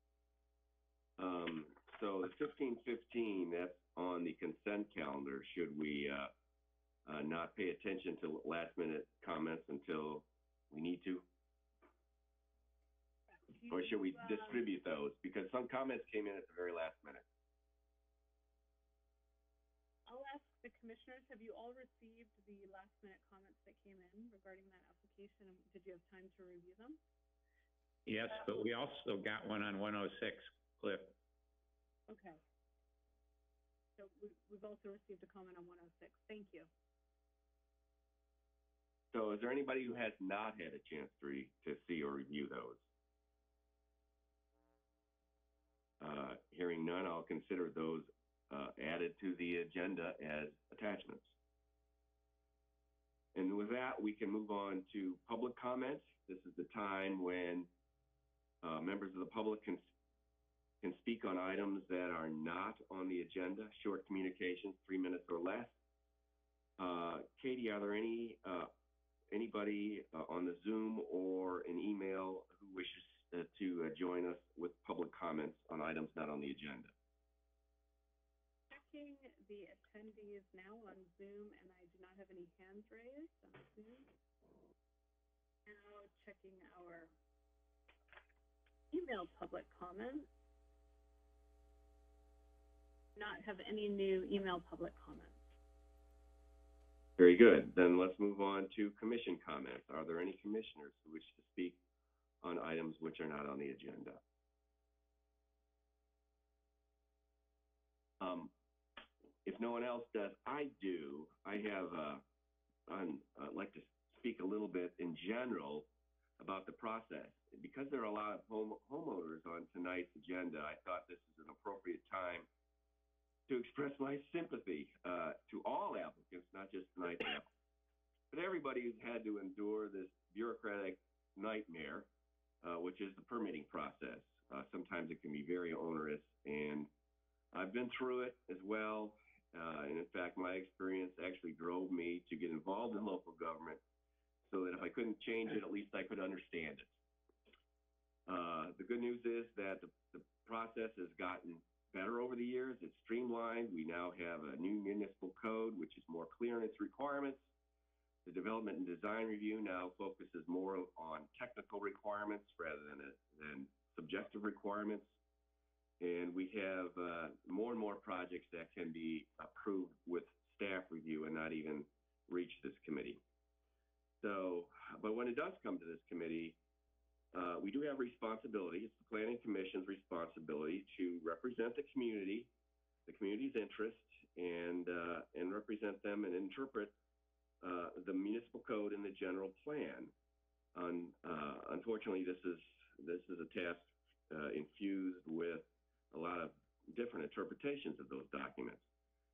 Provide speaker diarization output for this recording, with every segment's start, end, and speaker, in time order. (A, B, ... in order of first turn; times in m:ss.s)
0:01.2-0:06.3 A
0:07.1-0:11.2 A
0:13.4-0:14.5 B
0:13.7-0:17.2 A
0:20.1-0:27.0 B
0:28.1-0:31.2 C
0:32.1-0:32.4 B
0:34.0-0:36.7 B
0:39.1-0:42.8 A
0:46.0-0:51.3 A
0:53.3-0:57.7 A
0:58.6-0:59.9 A
1:00.8-1:05.7 A
1:06.8-1:08.7 A
1:09.3-1:16.9 A
1:18.7-1:24.1 B
1:25.7-1:27.1 B
1:28.9-1:30.3 B
1:33.2-1:35.4 B
1:37.2-1:41.8 A
1:42.4-1:44.2 A
1:48.2-1:48.5 A
1:49.4-1:52.2 A
1:52.9-1:55.9 A
1:56.4-2:02.5 A
2:03.5-2:07.5 A
2:08.3-2:12.1 A
2:12.6-2:16.9 A
2:17.5-2:23.8 A
2:24.5-2:26.9 A
2:28.3-2:37.4 A
2:38.2-2:45.1 A
2:46.0-2:53.2 A
2:54.2-2:56.6 A
2:57.3-3:02.5 A
3:03.1-3:06.9 A
3:07.6-3:10.1 A
3:10.8-3:18.8 A